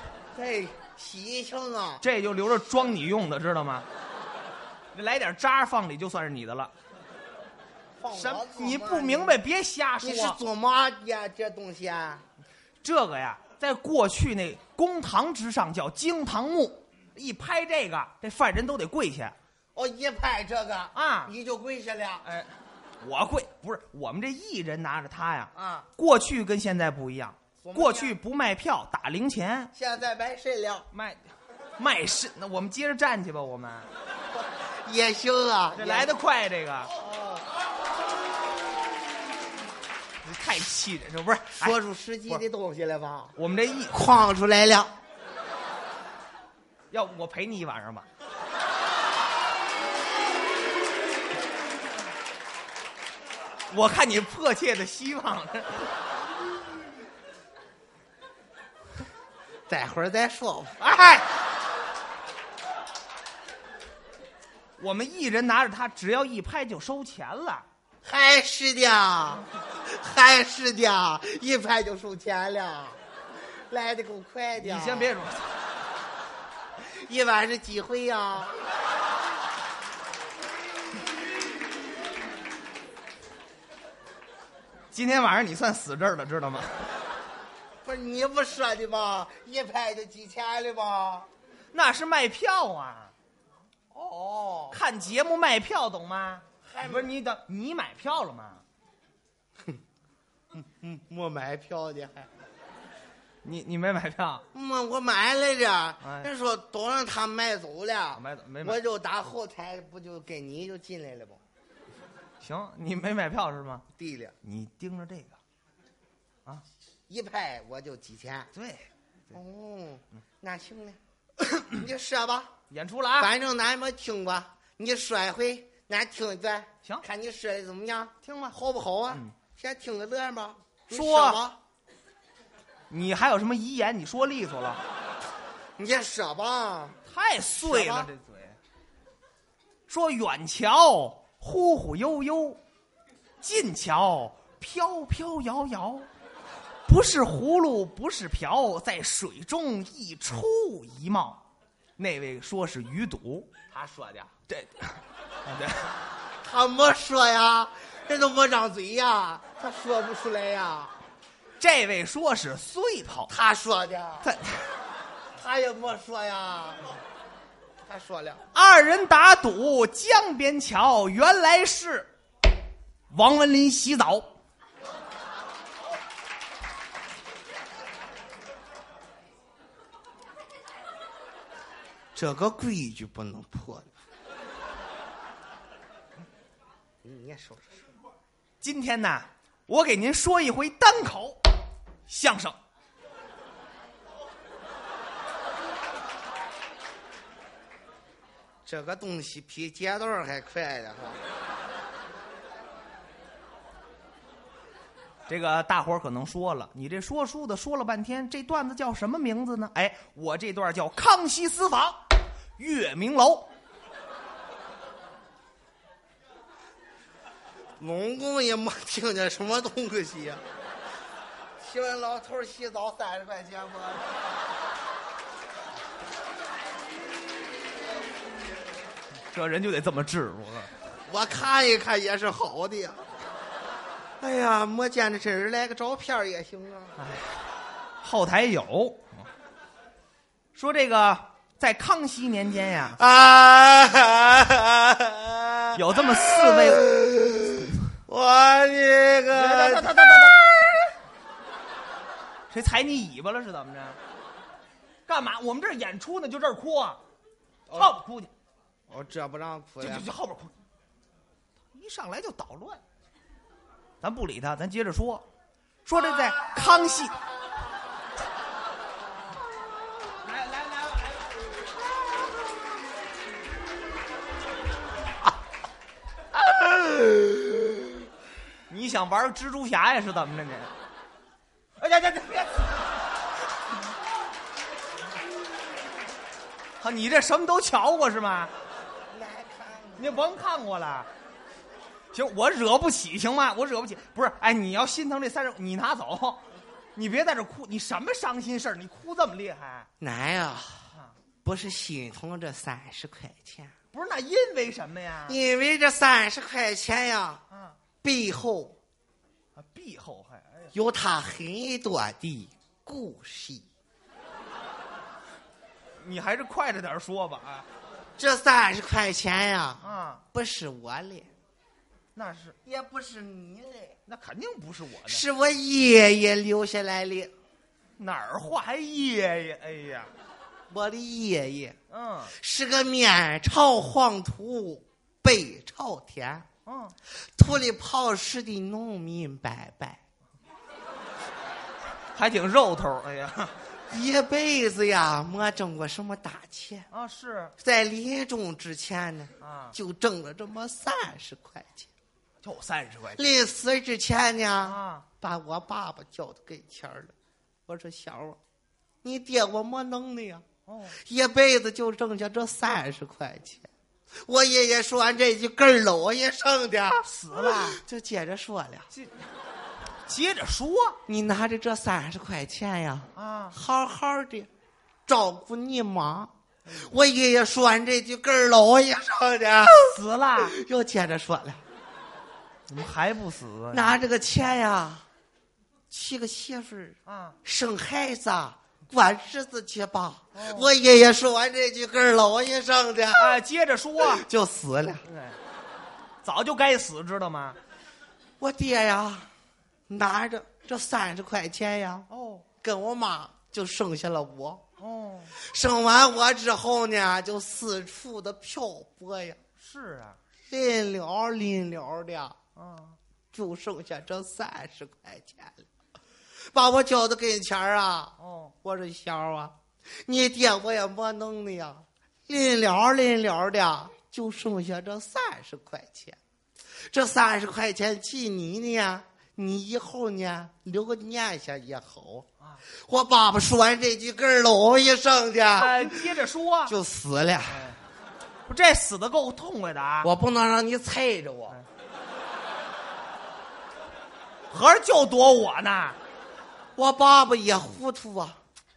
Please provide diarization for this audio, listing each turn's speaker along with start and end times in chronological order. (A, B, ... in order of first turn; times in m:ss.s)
0:00.3-0:02.0 A
0:02.0-0:03.9 B
0:04.9-0:06.7 B
0:08.0-0:09.4 A
0:08.1-0:10.4 B
0:10.0-0:12.2 A
0:12.8-0:19.4 B
0:19.8-0:22.3 A
0:20.9-0:21.3 B
0:22.2-0:29.7 B
0:25.5-0:25.9 A
0:27.6-0:28.2 A
0:29.7-0:30.9 A
0:30.9-0:33.9 B
0:34.4-0:36.1 A
0:35.8-0:36.9 B
0:36.9-0:37.5 A
0:40.2-0:41.8 B
0:41.6-0:43.4 A
0:43.4-0:44.0 B
0:43.9-0:45.0 A
0:46.9-0:48.1 B
0:53.7-0:55.9 B
0:59.7-1:00.8 A
1:00.8-1:01.3 B
1:04.8-1:07.6 B
1:08.0-1:13.0 A
1:13.7-1:15.2 A
1:14.6-1:15.5 B
1:16.8-1:18.6 A
1:24.9-1:26.9 B
1:27.8-1:31.3 A
1:31.7-1:33.1 B
1:33.9-1:34.8 A
1:34.7-1:38.6 B
1:36.6-1:37.1 A
1:40.5-1:42.3 A
1:43.4-1:44.5 B
1:44.5-1:51.4 A
1:46.0-1:46.3 B
1:48.2-1:48.8 B
1:52.4-1:53.9 B
1:54.0-1:54.4 A
1:54.4-1:55.4 B
1:57.1-1:58.5 A
1:58.5-1:58.9 B
1:59.3-2:01.0 A
2:01.4-2:01.7 B
2:01.7-2:02.5 A
2:02.7-2:03.3 B
2:03.2-2:11.6 A
2:08.2-2:08.6 B
2:10.9-2:11.4 B
2:12.9-2:14.8 B
2:15.8-2:17.0 A
2:17.0-2:18.6 B
2:17.6-2:18.1 A
2:19.9-2:22.6 B
2:23.4-2:26.1 B
2:26.9-2:31.4 B
2:32.0-2:33.5 B
2:33.7-2:34.3 A
2:34.5-2:35.9 B
2:36.4-2:41.0 A
2:41.6-2:43.3 B
2:43.3-2:44.3 A
2:44.2-2:44.7 B
2:45.4-2:47.0 A
2:47.8-2:48.5 A
2:48.5-2:52.1 B
2:53.1-2:54.3 B
3:02.2-3:03.9 A
3:07.0-3:07.9 A
3:08.6-3:11.4 B
3:12.1-3:12.6 B
3:18.6-3:21.2 A
3:25.3-3:32.0 B
3:32.6-3:33.5 B
3:37.8-3:40.4 A
3:41.6-3:44.2 A
3:49.3-3:50.7 B
3:51.1-3:53.1 A
3:54.2-3:57.0 A
3:57.0-3:57.4 B
3:58.0-3:59.2 B
4:00.6-4:03.0 B
4:03.0-4:10.9 A
4:05.8-4:06.8 B
4:09.3-4:10.4 B
4:12.5-4:14.0 B
4:15.1-4:17.0 B
4:17.7-4:18.0 A
4:17.7-4:18.3 B
4:18.9-4:20.1 A
4:19.8-4:20.5 B
4:21.7-4:22.8 B
4:24.0-4:25.2 B
4:25.9-4:27.2 B
4:30.3-4:31.0 B
4:36.5-4:37.7 A
4:38.7-4:40.7 B
4:41.8-4:42.8 B
4:46.8-4:48.5 B
4:49.1-4:50.3 A
4:50.0-4:51.1 B
4:52.1-4:59.9 B
5:00.0-5:00.9 A
5:00.9-5:01.2 B
5:01.4-5:03.7 A
5:03.9-5:05.4 B
5:05.3-5:07.4 A
5:07.5-5:07.8 B
5:08.0-5:08.8 A
5:09.6-5:10.7 B
5:10.7-5:13.7 A
5:16.0-5:17.7 B
5:18.2-5:19.8 A
5:19.8-5:20.2 B
5:20.3-5:21.3 A
5:22.2-5:22.6 B
5:22.6-5:24.0 A
5:24.1-5:25.2 B
5:25.1-5:27.3 A
5:28.0-5:30.1 B
5:30.7-5:31.8 A
5:31.9-5:32.4 B
5:32.3-5:36.5 A
5:36.7-5:37.0 B
5:37.4-5:40.0 A
5:42.2-5:43.6 B
5:43.9-5:46.9 A
5:46.9-5:47.5 B
5:47.6-5:51.9 A
5:49.4-5:49.8 B
5:52.4-5:53.3 B
5:53.2-5:57.1 A
5:54.6-5:55.1 B
5:57.7-5:58.4 A
5:59.0-6:00.4 A
6:00.7-6:01.0 B
6:01.0-6:03.7 A
6:04.2-6:08.9 A
6:07.0-6:07.8 B
6:08.9-6:09.2 B
6:10.1-6:11.0 B
6:11.1-6:14.5 A
6:13.2-6:13.6 B
6:15.1-6:21.6 A
6:19.9-6:20.6 B
6:22.7-6:24.0 B
6:23.7-6:25.0 A
6:25.9-6:33.4 A
6:27.1-6:27.4 B
6:30.3-6:30.7 B
6:33.1-6:34.2 B
6:34.0-6:35.0 A
6:35.0-6:35.4 B
6:36.2-6:37.6 B
6:38.4-6:39.3 A
6:39.9-6:42.1 A
6:42.1-6:42.5 B
6:42.6-6:44.6 A
6:44.8-6:45.4 B
6:45.4-6:49.4 A
6:49.6-6:50.2 B
6:50.5-6:52.4 A
6:52.6-6:53.0 B
6:53.3-6:55.7 A
6:56.5-6:59.5 A
6:58.2-6:58.6 B
7:00.0-7:06.2 A
7:06.9-7:17.7 A
7:15.6-7:16.7 B
7:17.5-7:17.8 B
7:18.5-7:20.1 B
7:20.0-7:21.6 A
7:24.5-7:26.0 B
7:26.8-7:28.4 A